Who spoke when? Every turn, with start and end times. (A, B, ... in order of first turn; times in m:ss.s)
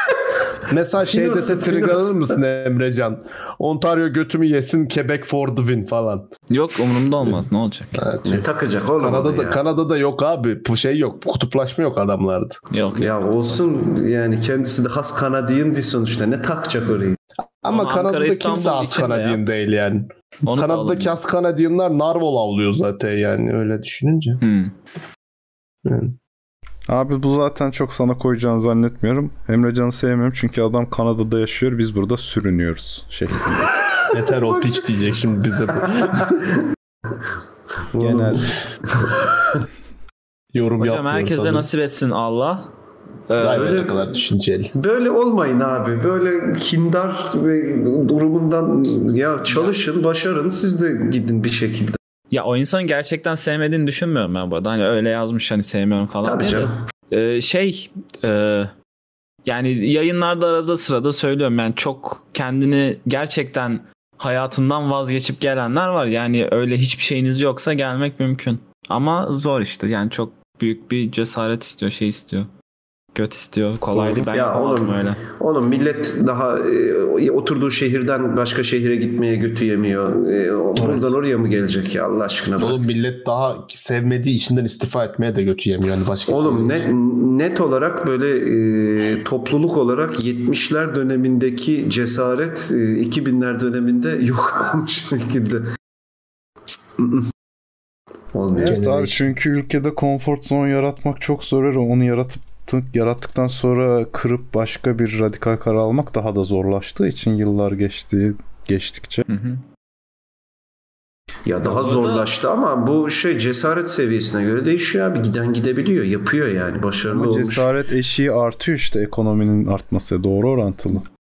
0:00.7-0:06.3 A
0:01.0-0:02.3 B
0:06.5-0:08.0 C
0:08.0-0:08.5 A
0:08.2-0:09.6 B
0:09.0-0:12.6 A
0:12.7-0:13.6 C
0:13.0-0:17.2 B
0:17.6-0:24.4 A
0:17.7-0:19.4 C
0:20.5-0:21.2 C
0:24.4-0:24.7 C
0:25.8-0:26.2 A
0:26.9-0:33.7 D
0:34.1-0:36.5 A
0:37.9-0:38.5 B
0:38.0-0:38.5 D
0:40.5-0:41.7 A
0:40.8-0:42.7 C
0:43.3-0:43.9 C
0:43.4-0:44.7 A
0:43.4-0:43.9 B
0:44.7-0:52.0 B
0:49.5-0:49.8 C
0:52.3-0:58.7 C
0:56.2-0:56.8 B
0:59.4-1:12.5 C
1:13.2-1:15.2 C
1:14.1-1:22.8 B
1:20.8-1:21.1 A
1:22.6-1:26.9 A
1:26.3-1:35.7 B
1:37.0-1:37.3 B
1:38.3-1:38.8 B
1:38.6-1:49.3 D
1:38.6-1:39.3 A
1:49.3-1:49.6 C
1:51.5-1:57.7 B
1:51.6-1:52.3 C
1:57.1-2:01.1 D